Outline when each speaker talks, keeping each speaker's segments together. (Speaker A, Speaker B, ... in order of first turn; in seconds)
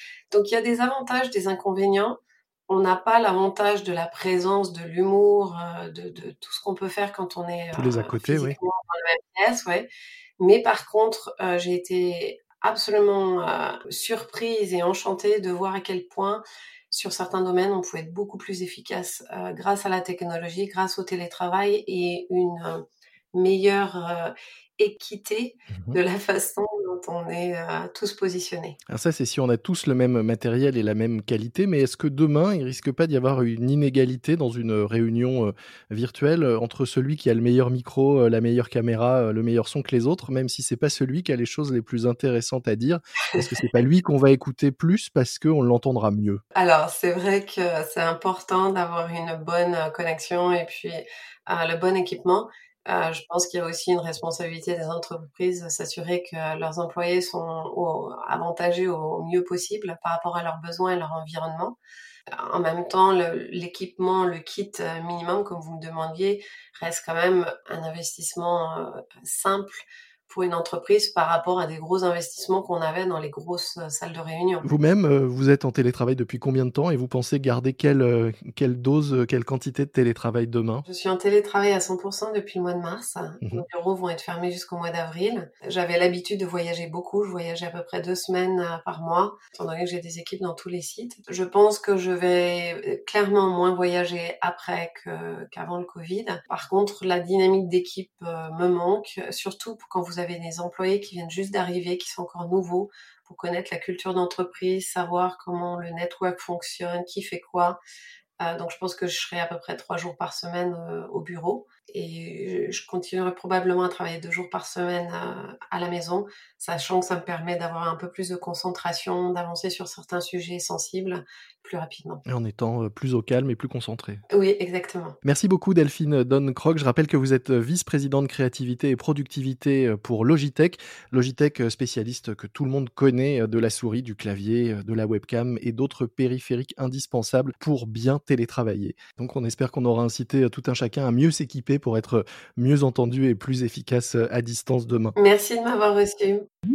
Speaker A: 0.3-28.8, 46.5-61.8, 62.3-74.7, 80.8-107.8, 108.4-122.2, 124.3-125.2, 145.2-146.4
Speaker B: 7.7-8.6, 25.7-26.0, 28.9-46.4, 74.6-80.8, 122.2-124.2, 125.2-145.1